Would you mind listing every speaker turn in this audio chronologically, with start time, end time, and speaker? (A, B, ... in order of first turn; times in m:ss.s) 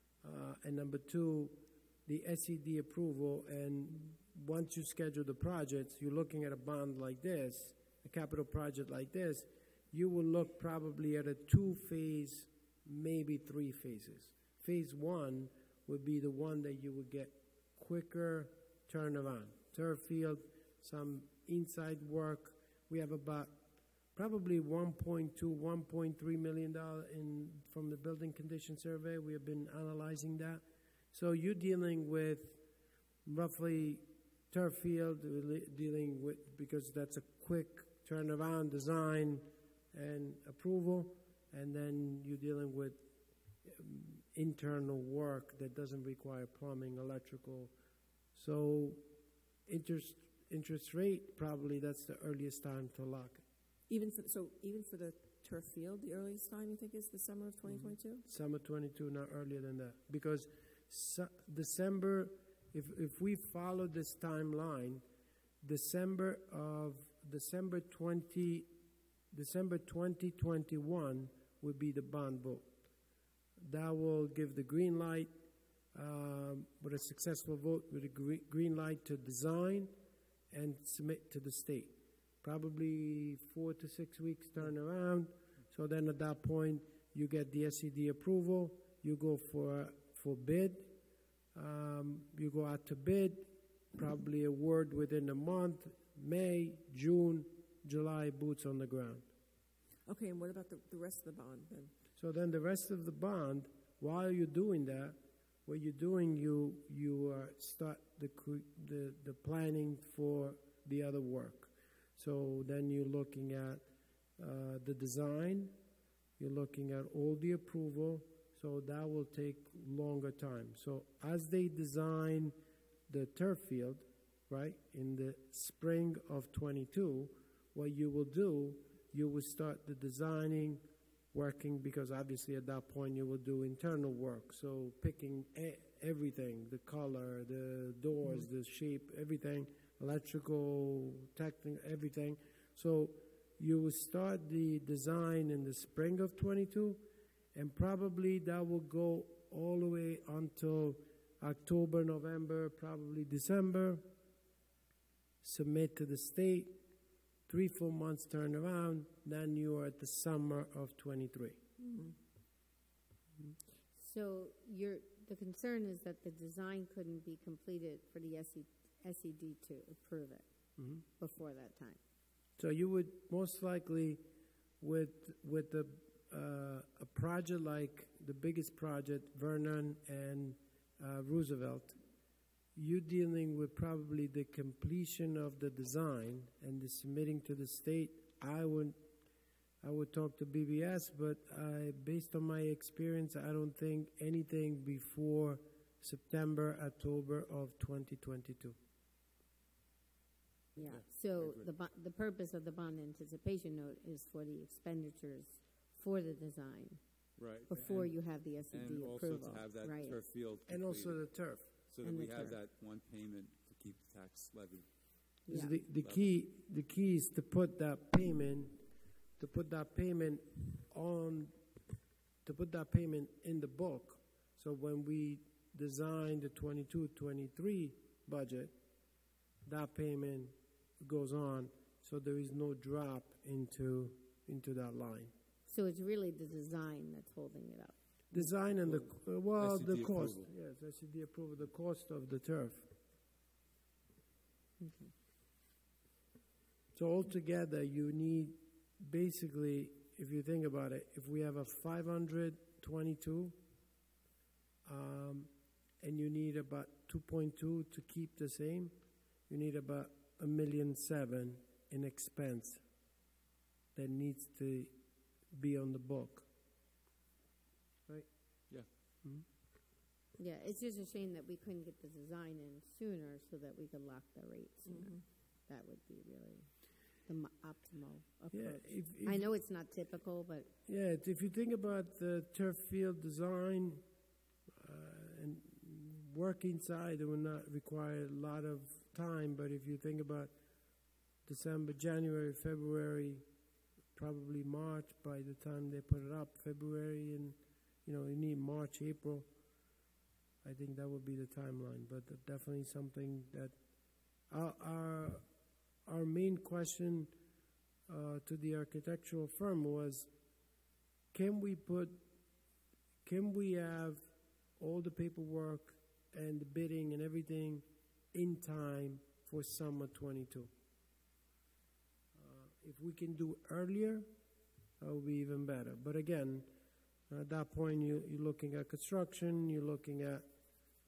0:00.2-0:23.6 A
0:24.1-0:32.6 A
0:33.3-0:43.0 A
0:43.6-0:47.7 A
0:48.4-0:49.0 A
0:49.7-0:53.4 A
0:53.9-0:58.3 B
0:57.7-1:05.0 A
1:05.6-1:08.7 A
1:09.3-1:12.7 A
1:13.6-1:15.3 A
1:15.9-1:19.9 A
1:20.5-1:31.0 A
1:31.5-1:39.3 A
1:40.1-1:41.9 B
1:42.2-1:53.9 A
1:54.4-1:55.8 A
1:56.4-2:02.6 A
2:03.1-2:34.1 A
2:35.4-2:36.8 A
2:37.5-2:41.6 A
2:41.8-2:42.2 B
2:43.9-2:50.5 C
2:50.8-2:51.0 A
2:51.2-2:52.0 C
2:52.6-2:54.2 A
2:54.8-3:02.0 A
3:02.8-3:09.0 A
3:09.8-3:18.8 A
3:20.8-3:27.0 C
3:20.8-3:21.7 D
3:27.4-3:35.0 D
3:27.7-3:30.2 C
3:30.7-3:31.7 A
3:32.0-3:32.6 C
3:35.5-3:35.8 C
3:35.5-3:41.6 A
3:35.9-3:36.3 D
3:42.4-3:48.7 A
3:49.6-3:55.3 A
3:55.7-3:58.0 C
3:58.3-4:02.9 A
3:58.4-4:00.5 D
4:04.8-4:05.1 C
4:06.9-4:13.6 A
4:14.8-4:22.8 A
4:24.0-4:25.0 A
4:25.5-4:26.5 A
4:30.4-4:35.2 C
4:34.9-4:35.2 B
4:35.7-4:36.7 C
4:37.2-4:40.7 C
4:38.5-4:39.4 A
4:40.9-4:44.0 A
4:44.8-4:50.5 A
4:51.4-4:53.4 A
4:54.2-4:59.5 A
5:00.6-5:03.8 A
5:04.5-5:05.4 A
5:06.1-5:07.3 A
5:08.1-5:10.3 A
5:11.3-5:12.2 A
5:13.2-5:14.3 A
5:14.8-5:20.7 A
5:22.4-5:24.3 A
5:25.0-5:26.7 A
5:27.3-5:30.5 A